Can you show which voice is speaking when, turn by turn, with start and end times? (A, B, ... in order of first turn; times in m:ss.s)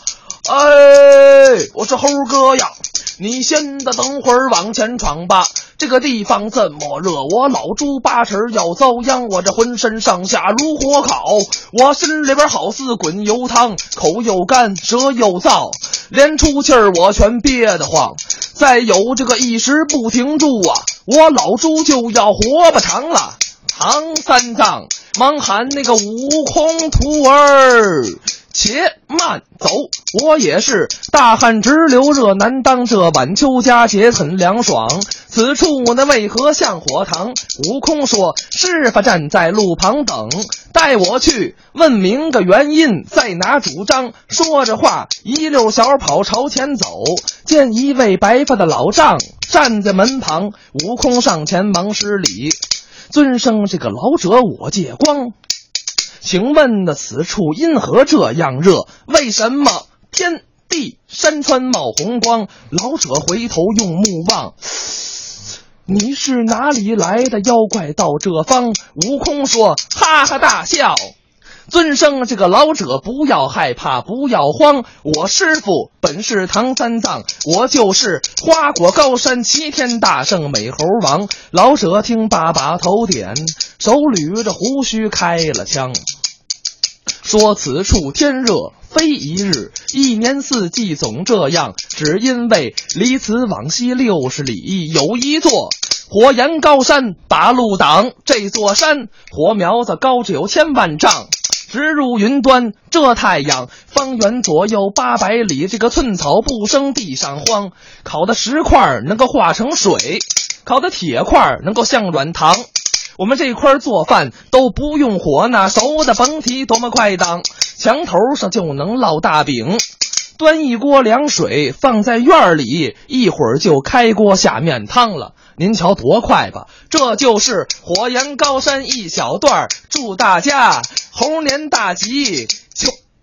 0:00.4-0:52.6 A
0:53.1-0:55.4 A
0:56.2-1:05.1 A
1:05.9-1:11.1 A
1:11.7-1:26.0 A
1:27.2-1:52.7 A
1:53.2-1:59.8 A
2:00.4-2:13.0 A